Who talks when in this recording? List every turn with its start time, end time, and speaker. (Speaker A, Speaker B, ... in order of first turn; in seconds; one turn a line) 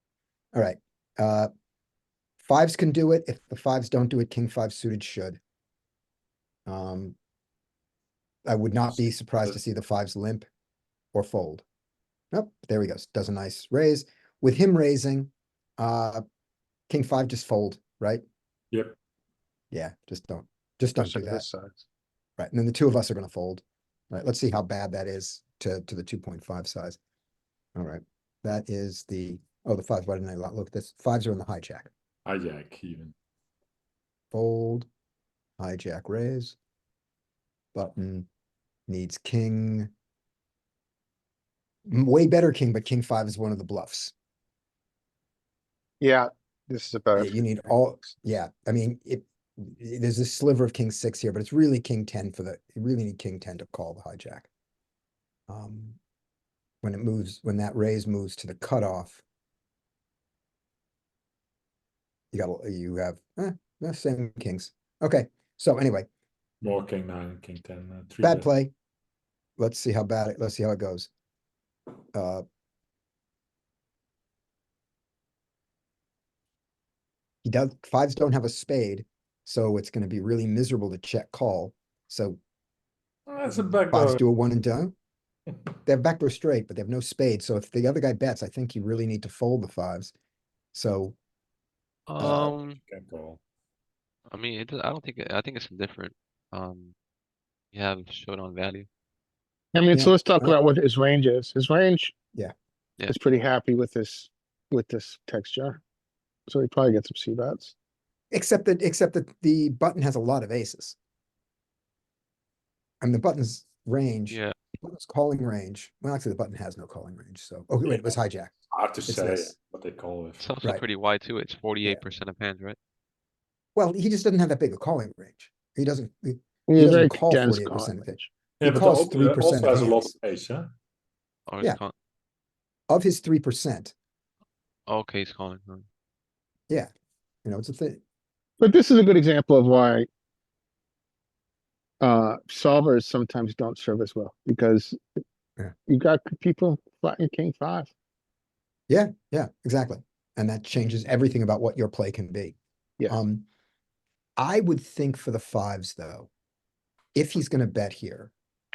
Speaker A: 0.5-1.5
Speaker A: 2.4-5.4
Speaker A: 6.7-7.2
Speaker A: 8.4-10.5
Speaker A: 11.1-11.6
Speaker A: 12.3-16.2
Speaker A: 16.9-18.2
Speaker A: 19.7-21.4
Speaker B: 21.0-21.8
Speaker A: 22.4-27.0
Speaker A: 27.8-31.9
Speaker C: 32.2-33.1
Speaker A: 34.3-34.9
Speaker A: 35.6-36.5
Speaker A: 37.7-38.2
Speaker A: 38.9-39.9
Speaker A: 41.9-44.1
Speaker B: 46.0-47.5
Speaker A: 47.1-54.5
Speaker A: 55.5-56.0
Speaker A: 56.8-59.2
Speaker A: 62.3-66.1
Speaker C: 66.6-68.5
Speaker A: 68.2-68.7
Speaker A: 69.6-71.1
Speaker A: 72.1-72.4
Speaker A: 77.4-82.4
Speaker C: 83.3-84.2
Speaker A: 83.9-84.9
Speaker A: 85.8-90.1
Speaker A: 90.7-91.2
Speaker D: 92.1-92.8
Speaker A: 92.2-92.5
Speaker C: 92.2-93.4
Speaker D: 94.3-96.9
Speaker D: 97.7-98.9
Speaker B: 99.7-102.1
Speaker A: 99.9-100.5
Speaker B: 103.1-105.8
Speaker B: 106.5-107.7
Speaker A: 108.3-111.0
Speaker A: 113.0-118.5
Speaker D: 114.3-114.5
Speaker C: 117.8-118.1
Speaker C: 118.7-120.4
Speaker A: 119.1-119.5
Speaker D: 120.4-122.8
Speaker A: 123.7-130.1
Speaker B: 126.7-128.3
Speaker C: 128.6-130.7
Speaker D: 131.5-131.9
Speaker A: 132.9-133.9
Speaker D: 134.9-135.8
Speaker A: 137.4-138.0
Speaker B: 138.6-140.1
Speaker B: 142.0-145.2
Speaker B: 145.9-147.9
Speaker A: 148.9-152.6
Speaker A: 153.1-153.4
Speaker A: 154.4-156.3
Speaker A: 157.1-158.3